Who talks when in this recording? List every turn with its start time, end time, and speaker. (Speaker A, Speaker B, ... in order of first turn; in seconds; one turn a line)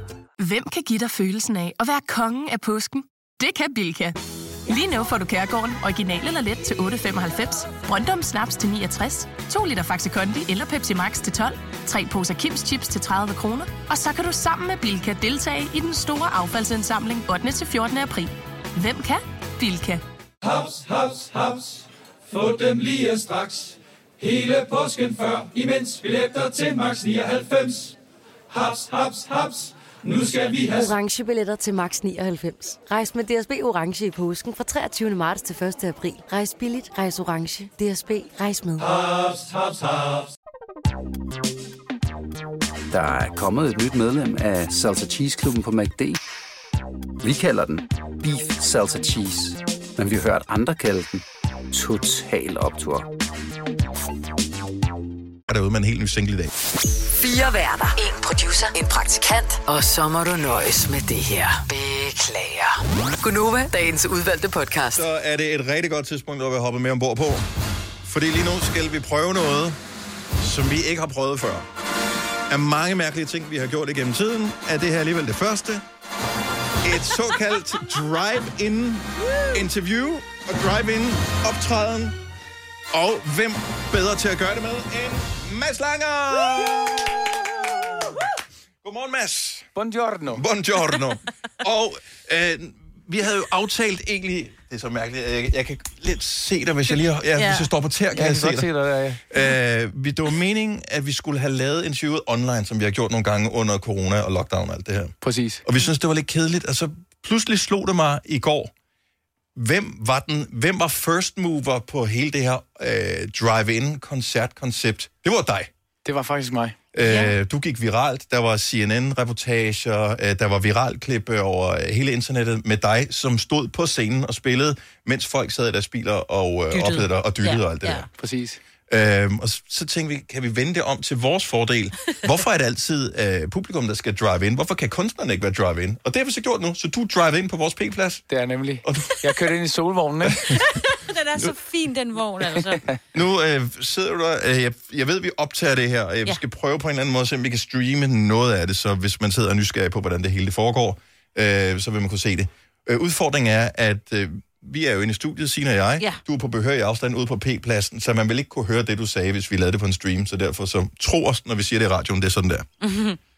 Speaker A: 0.4-20.0
Speaker B: 20.4-27.9
Speaker B: 28.5-30.9
Speaker C: 30.7-38.9
Speaker B: 38.8-40.3
Speaker D: 42.9-46.2
Speaker D: 47.2-53.1
Speaker E: 55.5-56.5
Speaker F: 57.0-65.0
Speaker E: 64.9-67.5
Speaker E: 68.0-69.8
Speaker E: 70.4-71.7
Speaker E: 72.5-75.8
Speaker E: 76.8-82.2
Speaker E: 82.9-88.2
Speaker E: 88.8-89.7
Speaker G: 89.7-90.4
Speaker E: 90.3-98.7
Speaker H: 97.4-97.7
Speaker G: 98.1-99.2
Speaker E: 99.3-108.7
Speaker G: 105.2-105.6
Speaker E: 109.5-115.7
Speaker G: 116.0-116.8
Speaker E: 116.9-128.1
Speaker H: 117.0-117.3
Speaker H: 126.7-128.1
Speaker G: 128.1-128.6
Speaker E: 128.9-138.2
Speaker G: 138.3-140.4
Speaker E: 138.8-139.2
Speaker H: 140.5-142.8
Speaker G: 142.6-143.0
Speaker E: 143.1-162.7
Speaker H: 162.8-163.2